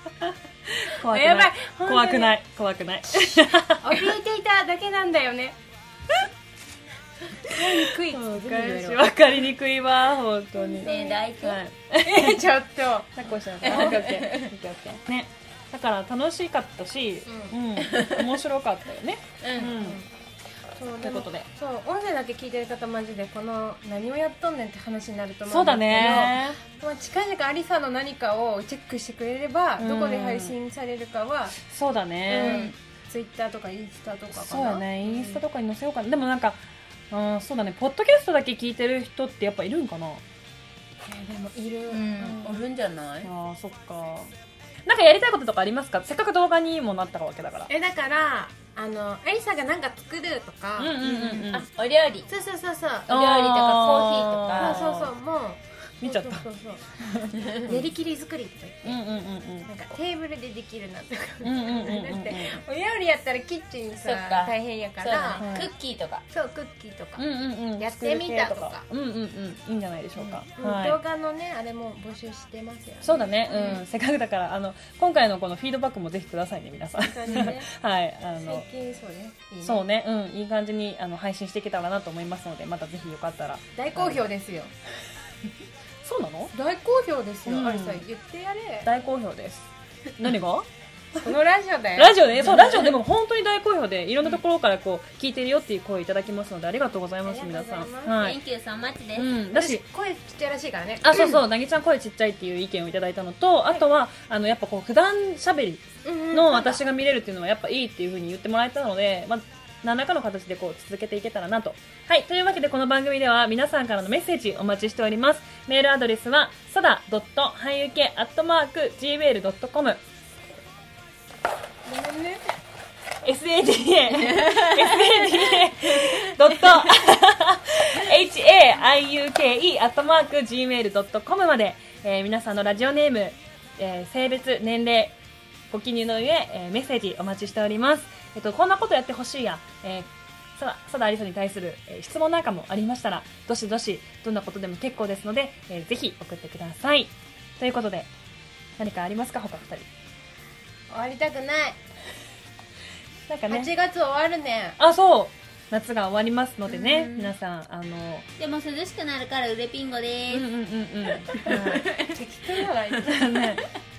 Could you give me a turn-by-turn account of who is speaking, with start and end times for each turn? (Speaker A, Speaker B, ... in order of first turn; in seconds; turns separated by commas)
Speaker A: 0.2-3.9, Speaker B: 0.9-2.3, Speaker B: 3.8-5.6, Speaker B: 7.4-9.1, Speaker A: 7.5-12.4, Speaker B: 10.6-11.3, Speaker C: 10.8-11.6, Speaker B: 12.0-14.4, Speaker A: 13.1-20.0, Speaker C: 13.7-14.5, Speaker B: 17.2-17.6, Speaker C: 17.8-18.3, Speaker C: 19.4-19.8, Speaker B: 19.6-20.1, Speaker B: 20.7-31.6, Speaker A: 21.0-21.5, Speaker A: 25.5-26.6, Speaker A: 29.8-30.6, Speaker A: 31.6-32.7, Speaker B: 32.2-35.4, Speaker A: 34.3-40.2, Speaker B: 41.0-42.5, Speaker C: 41.9-43.3, Speaker A: 43.2-44.3, Speaker A: 44.9-47.7, Speaker B: 47.7-51.5, Speaker A: 50.8-51.7, Speaker C: 51.0-52.3, Speaker B: 52.2-53.2, Speaker C: 53.1-54.9, Speaker A: 53.1-55.1, Speaker B: 54.5-56.9, Speaker A: 56.0-56.5, Speaker A: 57.0-57.7, Speaker B: 57.5-59.0, Speaker A: 58.8-59.7, Speaker B: 59.6-65.5, Speaker A: 61.4-62.6, Speaker C: 64.0-66.2, Speaker A: 65.4-65.7, Speaker B: 66.3-67.2, Speaker A: 67.2-71.0, Speaker B: 67.8-68.8, Speaker B: 70.5-73.8, Speaker A: 73.0-78.7, Speaker B: 77.0-77.7, Speaker B: 78.4-79.8, Speaker A: 79.6-84.2, Speaker B: 83.7-84.7, Speaker A: 86.0-86.5, Speaker B: 86.5-88.9, Speaker A: 87.5-88.0, Speaker A: 88.8-90.7, Speaker B: 91.2-92.8, Speaker A: 92.0-98.4, Speaker B: 97.2-98.3, Speaker C: 98.1-99.3, Speaker A: 99.1-99.8, Speaker B: 99.5-101.4, Speaker A: 101.0-120.0, Speaker B: 106.0-106.8, Speaker B: 121.8-122.5, Speaker A: 123.2-135.1, Speaker C: 124.3-126.9, Speaker A: 135.7-148.1, Speaker A: 148.8-149.9, Speaker B: 150.9-151.8, Speaker A: 153.3-153.7, Speaker B: 153.5-154.8, Speaker A: 154.8-158.3, Speaker C: 156.7-157.3, Speaker C: 158.4-160.5, Speaker A: 160.3-161.9, Speaker C: 161.2-162.2, Speaker B: 162.0-163.6, Speaker A: 163.1-163.6